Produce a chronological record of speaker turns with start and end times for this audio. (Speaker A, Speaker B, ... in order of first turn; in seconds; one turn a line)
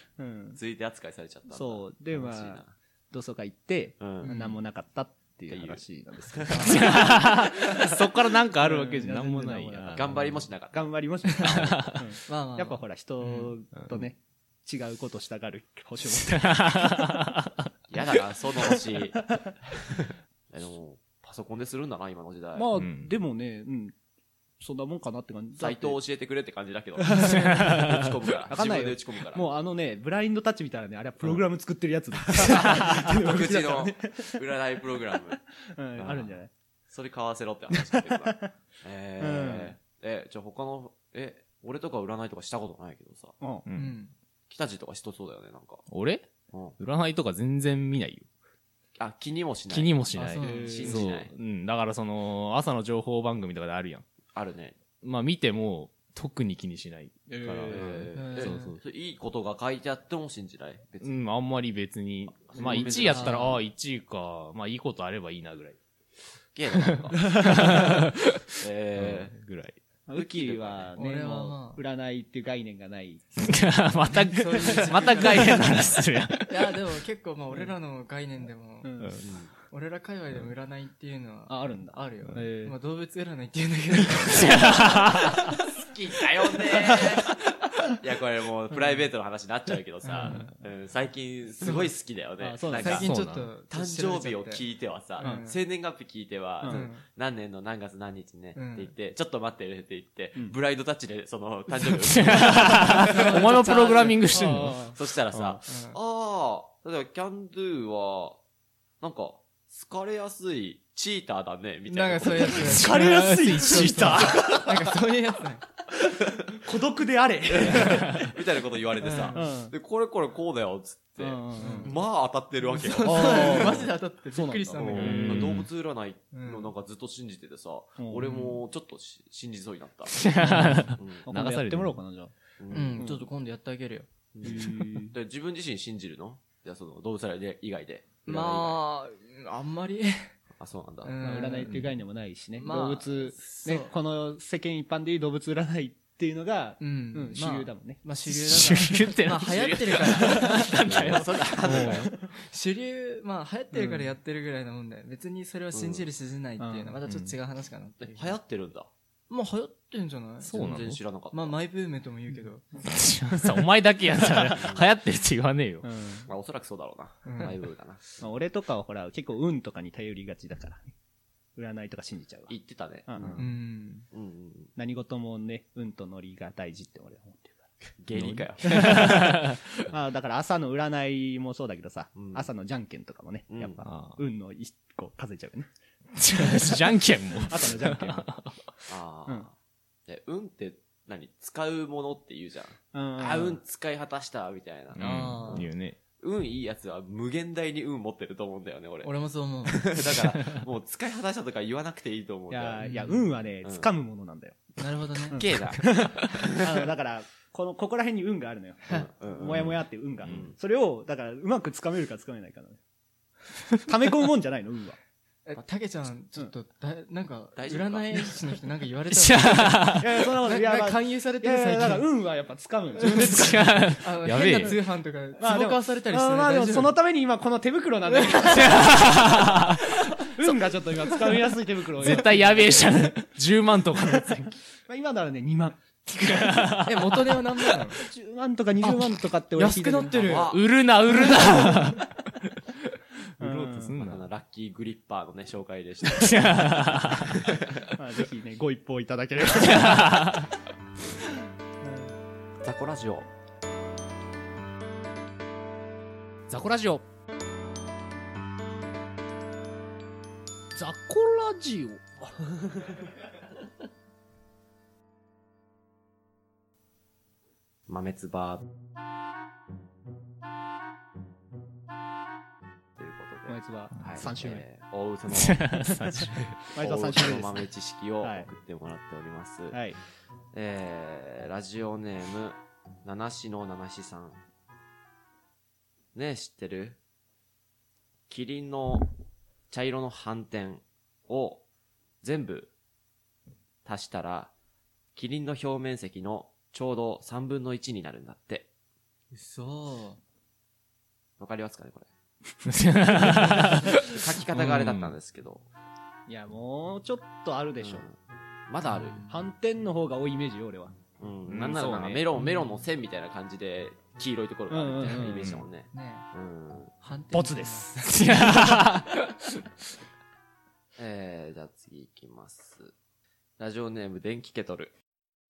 Speaker A: 0.2-0.6
Speaker B: 0.6-2.8
Speaker A: 1.5-7.3
Speaker B: 4.0-4.3
Speaker C: 4.2-4.6
Speaker B: 5.5-6.8
Speaker C: 6.5-7.2
Speaker D: 6.6-10.4
Speaker A: 8.6-17.2
Speaker B: 9.9-11.8
Speaker D: 11.5-12.1
Speaker C: 12.3-13.6
Speaker D: 16.4-17.5
Speaker B: 17.9-22.8
Speaker A: 22.6-23.9
Speaker D: 22.7-23.1
Speaker A: 24.6-26.0
Speaker B: 25.6-29.5
Speaker A: 27.1-27.8
Speaker D: 27.4-28.0
Speaker A: 28.5-34.4
Speaker B: 32.3-35.4
Speaker A: 35.6-36.5
Speaker B: 36.0-36.4
Speaker B: 36.9-43.4
Speaker A: 37.7-38.5
Speaker A: 39.2-39.8
Speaker A: 43.4-43.7
Speaker D: 43.7-44.0
Speaker C: 43.8-44.1
Speaker B: 44.5-45.8
Speaker D: 45.9-48.3
Speaker B: 49.0-51.3
Speaker D: 49.7-54.0
Speaker C: 50.2-51.0
Speaker A: 50.4-51.0
Speaker B: 54.3-54.8
Speaker D: 55.0-58.7
Speaker A: 57.3-57.9
Speaker B: 57.7-61.2
Speaker C: 58.1-58.7
Speaker D: 61.0-65.8
Speaker B: 62.3-63.6
Speaker A: 62.6-63.0
Speaker C: 63.0-63.6
Speaker B: 66.5-67.5
Speaker D: 67.0-68.3
Speaker A: 67.2-67.6
Speaker B: 68.6-69.3
Speaker D: 69.0-69.8
Speaker A: 70.1-74.8
Speaker B: 70.2-70.9
Speaker C: 71.0-71.8
Speaker D: 73.4-76.8
Speaker C: 74.4-79.0
Speaker A: 78.8-79.2
Speaker D: 79.0-79.3
Speaker B: 79.2-79.5
Speaker C: 79.6-85.0
Speaker A: 81.5-82.8
Speaker D: 84.3-85.5
Speaker B: 85.4-93.2
Speaker A: 90.1-90.5
Speaker C: 90.2-90.5
Speaker C: 91.6-92.0
Speaker A: 92.4-93.1
Speaker C: 92.7-95.6
Speaker D: 92.8-93.5
Speaker B: 93.7-104.4
Speaker A: 95.2-95.5
Speaker C: 96.6-97.0
Speaker A: 96.6-96.9
Speaker C: 98.5-98.9
Speaker D: 102.0-104.8
Speaker C: 103.1-105.0
Speaker A: 104.3-105.0
Speaker B: 104.9-108.4
Speaker C: 105.7-106.0
Speaker B: 109.0-112.9
Speaker C: 111.9-113.0
Speaker D: 112.7-114.4
Speaker A: 112.7-114.7
Speaker C: 113.7-115.7
Speaker A: 116.5-118.3
Speaker B: 117.5-123.9
Speaker C: 119.0-119.5
Speaker A: 119.3-119.8
Speaker A: 121.2-122.0
Speaker C: 121.6-122.0
Speaker C: 122.7-125.3
Speaker A: 123.0-125.5
Speaker B: 124.8-130.3
Speaker D: 124.9-125.7
Speaker C: 126.3-126.7
Speaker A: 128.0-128.5
Speaker C: 128.2-128.5
Speaker D: 130.2-132.0
Speaker C: 130.4-130.9
Speaker B: 131.0-131.3
Speaker A: 131.2-132.3
Speaker B: 132.6-133.1
Speaker C: 132.7-134.9
Speaker A: 133.0-133.3
Speaker B: 134.3-138.8
Speaker D: 134.4-134.8
Speaker A: 134.5-135.1
Speaker C: 138.2-140.3
Speaker B: 140.6-141.2
Speaker C: 141.0-141.9
Speaker A: 141.2-148.1
Speaker C: 142.6-144.0
Speaker C: 146.8-151.0
Speaker D: 148.3-152.1
Speaker B: 149.5-150.3
Speaker B: 150.9-152.2
Speaker C: 151.7-158.4
Speaker A: 153.7-154.1
Speaker B: 155.7-156.1
Speaker A: 156.6-157.0
Speaker D: 157.1-157.3
Speaker B: 158.0-158.9
Speaker C: 159.3-162.7
Speaker D: 160.4-161.0
Speaker B: 160.5-161.6
Speaker D: 162.8-165.9
Speaker A: 163.4-163.6
Speaker B: 164.6-164.8
Speaker A: 165.8-166.3
Speaker B: 166.3-168.3
Speaker C: 167.2-167.6
Speaker A: 168.2-170.9
Speaker A: 171.6-172.5
Speaker B: 172.5-173.5
Speaker A: 173.1-173.4
Speaker C: 173.4-174.1
Speaker B: 174.1-174.7
Speaker A: 174.8-177.7
Speaker B: 178.0-179.0
Speaker D: 178.1-179.5
Speaker A: 178.7-179.3
Speaker A: 179.9-185.7
Speaker B: 182.2-182.5
Speaker B: 183.5-183.8
Speaker D: 183.8-184.2
Speaker D: 186.2-188.4
Speaker A: 186.4-188.3
Speaker B: 188.9-189.5
Speaker B: 190.1-202.8
Speaker A: 192.9-193.6
Speaker D: 194.9-196.0
Speaker C: 195.0-195.7
Speaker C: 199.0-199.9
Speaker D: 200.2-200.6
Speaker A: 202.5-204.7
Speaker C: 202.8-203.4
Speaker B: 203.6-203.9
Speaker C: 204.8-205.7
Speaker A: 205.3-212.8
Speaker B: 205.4-206.5
Speaker B: 208.9-210.6
Speaker A: 213.8-215.0
Speaker C: 215.5-222.2
Speaker B: 217.6-218.4
Speaker D: 219.1-220.1
Speaker A: 220.0-223.8
Speaker C: 222.9-227.0
Speaker D: 223.1-224.8
Speaker A: 224.4-224.8
Speaker A: 225.4-229.4
Speaker C: 228.1-229.3
Speaker D: 228.5-229.8
Speaker A: 230.2-233.2
Speaker D: 232.0-234.4
Speaker C: 232.1-232.8
Speaker A: 234.0-236.8
Speaker D: 236.2-237.4
Speaker C: 236.9-238.0
Speaker A: 237.9-240.5
Speaker C: 238.8-240.5
Speaker B: 240.2-240.7
Speaker D: 240.5-242.0
Speaker A: 241.2-241.8
Speaker A: 243.4-244.0
Speaker D: 243.4-244.3
Speaker B: 244.0-246.7
Speaker D: 246.0-247.4
Speaker A: 247.9-250.4
Speaker D: 249.8-250.5
Speaker A: 251.8-252.1
Speaker B: 252.6-253.3
Speaker D: 256.5-257.0
Speaker A: 260.8-263.0
Speaker B: 267.9-268.6
Speaker B: 273.0-275.8
Speaker A: 273.5-274.7
Speaker D: 274.0-274.3
Speaker D: 275.3-276.6
Speaker B: 276.7-279.8
Speaker A: 276.8-277.6
Speaker A: 278.2-278.5
Speaker A: 279.7-280.0
Speaker B: 280.5-284.4
Speaker B: 286.1-287.0
Speaker B: 288.3-289.1
Speaker B: 289.7-291.6
Speaker B: 292.2-292.7
Speaker B: 293.9-294.5
Speaker B: 295.1-298.7
Speaker C: 299.3-300.2
Speaker B: 301.4-302.1
Speaker D: 302.7-305.1
Speaker B: 304.0-305.7
Speaker A: 306.3-308.1
Speaker B: 307.8-308.1
Speaker B: 308.7-309.2
Speaker C: 308.8-309.5
Speaker A: 309.3-312.2
Speaker B: 311.2-316.9
Speaker C: 312.4-312.8
Speaker A: 314.7-315.7
Speaker C: 315.0-315.3
Speaker C: 315.9-316.3
Speaker C: 317.0-318.7
Speaker A: 317.3-318.6
Speaker D: 318.1-319.3
Speaker B: 321.0-322.9
Speaker B: 323.6-324.9